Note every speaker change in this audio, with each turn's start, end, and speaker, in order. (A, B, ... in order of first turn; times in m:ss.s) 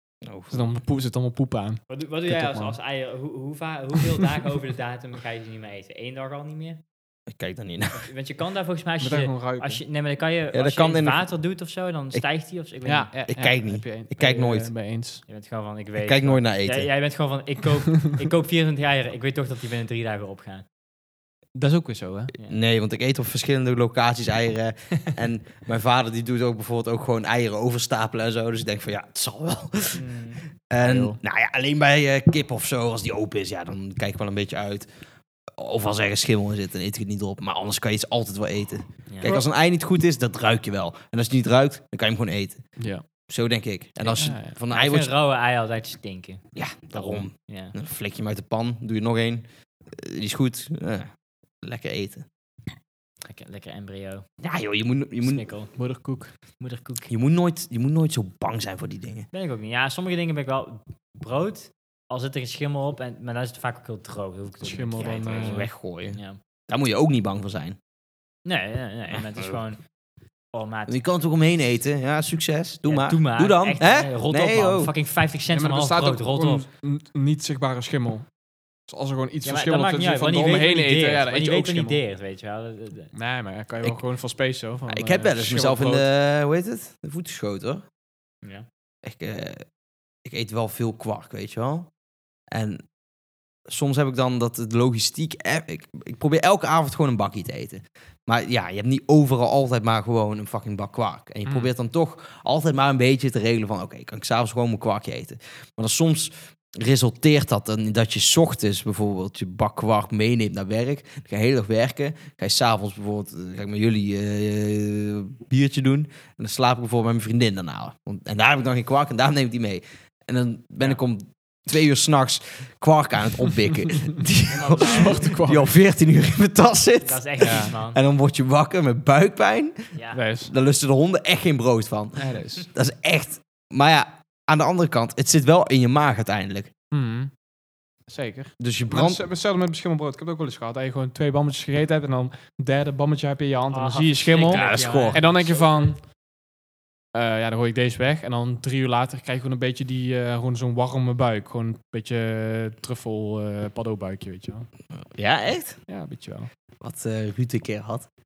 0:00.2-0:00.7 A
0:00.5-0:02.8 B
0:01.9-0:06.8 C
0:07.3-0:08.1 A
0:07.9-0:13.1 C
0:09.0-0:09.8 B
0:10.5-0:11.2 A
0:12.8-0:15.2 B
0:13.3-0:14.7 A
0:15.3-0:20.6 C
0:16.0-0:16.9 A
0:21.6-0:22.3 B
0:22.5-0:30.0 A
0:30.0-0:30.4 C
0:30.7-0:34.9 A
0:30.8-0:31.2 B
0:35.6-0:42.6 A
0:39.1-0:39.4 C
0:42.8-0:43.0 B
0:43.3-0:45.1 A
0:44.2-0:44.6 B
0:44.7-0:47.7 C
0:46.6-0:51.1 A
0:51.6-0:52.3 A
0:53.3-0:54.3 C
0:54.4-0:55.4 A
0:55.2-0:55.7 C
0:55.8-0:56.3 B
0:56.6-0:57.1 C
0:57.1-0:59.3 A
0:59.3-1:06.4 C
1:04.6-1:05.7 B
1:05.1-1:07.8 A
1:08.4-1:09.8 C
1:10.5-1:11.0 C
1:10.9-1:14.9 A
1:12.8-1:16.6 C
1:15.5-1:18.3 B
1:18.9-1:22.0 B
1:19.4-1:23.1 C
1:23.1-1:26.1 B
1:24.9-1:27.8 A
1:29.0-1:29.6 A
1:30.2-1:31.9 A
1:32.5-1:32.8 A
1:33.7-2:16.7 A
1:41.4-1:41.7 B
2:04.5-2:05.5 C
2:04.7-2:05.7 B
2:07.0-2:08.0 C
2:07.4-2:07.7 B
2:09.9-2:10.2 C
2:10.1-2:10.5 B
2:12.2-2:12.6 B
2:16.9-2:17.3 B
2:18.1-2:26.0 B
2:18.6-2:19.2 A
2:23.7-2:25.9 C
2:24.5-2:25.3 A
2:27.1-2:34.7 B
2:35.1-2:35.8 A
2:35.9-2:36.5 B
2:36.8-2:38.1 A